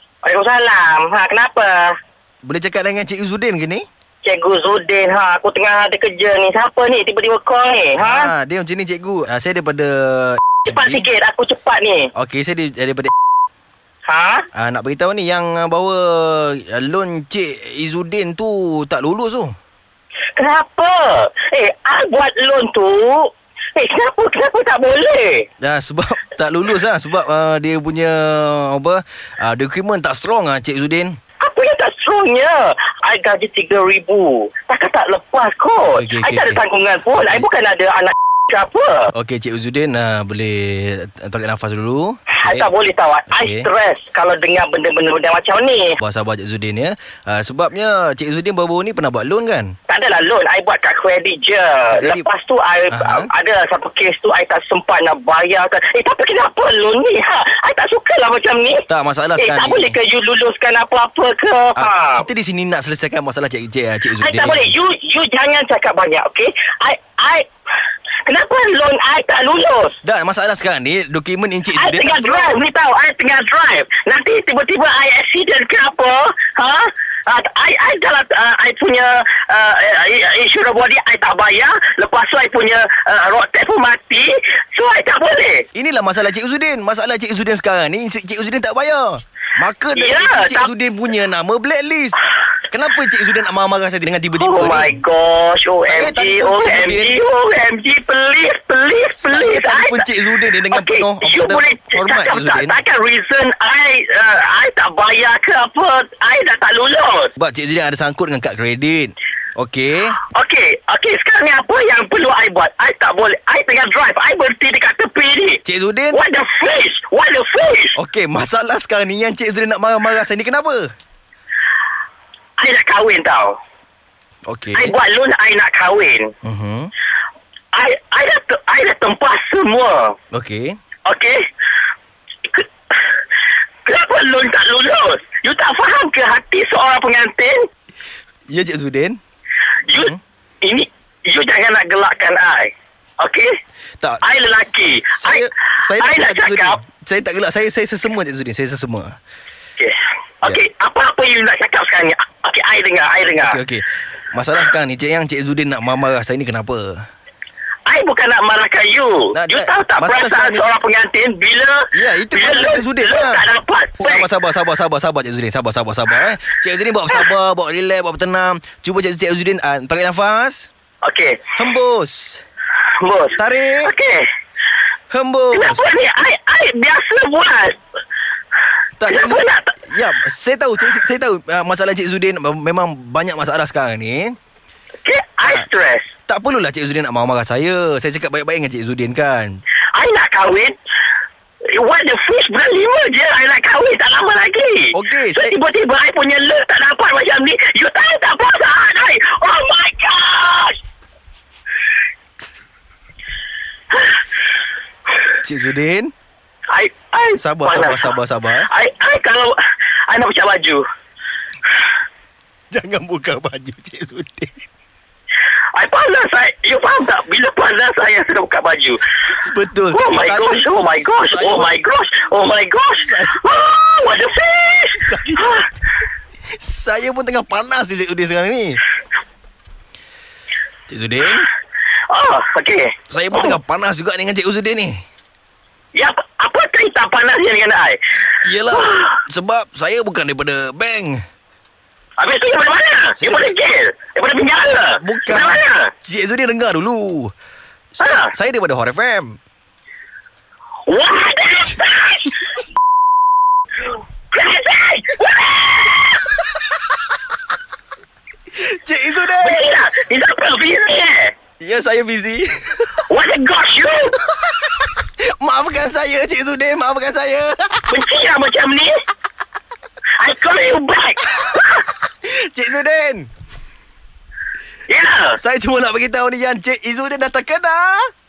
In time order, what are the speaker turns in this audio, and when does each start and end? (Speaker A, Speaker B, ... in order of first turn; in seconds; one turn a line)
Speaker A: 0.2-1.9
Speaker B: 2.4-3.9
Speaker A: 4.2-8.3
Speaker B: 8.0-11.1
Speaker A: 10.7-12.1
Speaker B: 12.2-13.1
Speaker A: 14.1-14.5
Speaker B: 14.5-19.5
Speaker A: 20.4-25.5
Speaker B: 25.6-31.2
Speaker A: 31.4-39.1
Speaker B: 35.9-36.6
Speaker B: 37.1-37.5
Speaker B: 39.1-42.7
Speaker A: 42.3-46.0
Speaker B: 43.3-43.7
Speaker B: 46.0-49.7
Speaker A: 49.9-62.3
Speaker B: 51.9-52.3
Speaker B: 52.9-53.3
Speaker B: 58.9-60.0
Speaker B: 61.8-64.7
Speaker A: 64.2-67.5
Speaker A: 68.2-70.0
Speaker B: 70.0-72.6
Speaker A: 71.8-85.7
Speaker B: 85.8-95.0
Speaker A: 90.0-90.7
Speaker A: 94.4-100.1
Speaker B: 95.8-97.2
Speaker B: 99.1-102.8
Speaker A: 100.7-107.3
Speaker B: 107.4-110.2
Speaker A: 110.3-115.6
Speaker B: 115.7-116.2
Speaker A: 116.1-118.0
Speaker B: 118.0-120.9
Speaker A: 122.6-123.6
Speaker B: 124.5-124.9
Speaker A: 124.8-126.3
Speaker B: 126.4-126.9
Speaker A: 127.7-130.2
Speaker B: 130.3-130.8
Speaker A: 131.1-131.4
Speaker A: 133.8-137.7
Speaker B: 138.5-139.2
Speaker A: 139.9-143.5
Speaker B: 139.9-140.2
Speaker B: 144.0-144.5
Speaker A: 144.2-146.8
Speaker B: 145.1-149.2
Speaker A: 149.8-153.6
Speaker B: 153.4-157.0
Speaker A: 157.9-164.3
Speaker B: 159.3-160.7
Speaker B: 161.9-163.4
Speaker B: 164.0-170.7
Speaker A: 171.0-171.5
Speaker B: 171.6-172.4
Speaker A: 173.0-174.3
Speaker B: 173.4-173.9
Speaker B: 175.1-175.8
Speaker A: 175.5-177.8
Speaker B: 179.0-184.4
Speaker A: 179.1-179.8
Speaker A: 185.0-186.1
Speaker B: 186.3-189.6
Speaker A: 189.9-190.8
Speaker A: 191.7-200.8
Speaker B: 194.9-195.6
Speaker A: 203.9-204.2
Speaker B: 205.4-206.1
Speaker A: 206.7-208.1
Speaker B: 207.4-208.7
Speaker A: 208.7-209.6
Speaker A: 210.1-210.8
Speaker B: 212.7-214.7
Speaker A: 215.8-219.0
Speaker B: 219.4-221.8
Speaker A: 219.9-225.7
Speaker B: 223.0-223.4
Speaker B: 225.0-225.4
Speaker B: 226.6-228.8
Speaker B: 230.9-231.5
Speaker A: 232.1-233.6
Speaker B: 233.1-235.0
Speaker A: 235.9-238.0
Speaker B: 238.4-241.2
Speaker A: 238.7-239.2
Speaker A: 242.2-245.9
Speaker B: 243.2-243.6
Speaker B: 245.0-247.3
Speaker B: 248.0-249.4
Speaker A: 248.0-248.3
Speaker A: 250.9-252.4
Speaker A: 254.3-256.3
Speaker B: 258.5-259.7
Speaker A: 259.4-261.4
Speaker B: 261.6-263.0
Speaker A: 263.1-264.2
Speaker B: 265.2-267.9
Speaker A: 267.9-268.9
Speaker A: 270.2-271.9
Speaker B: 272.2-273.3
Speaker A: 274.9-275.4
Speaker B: 275.4-278.1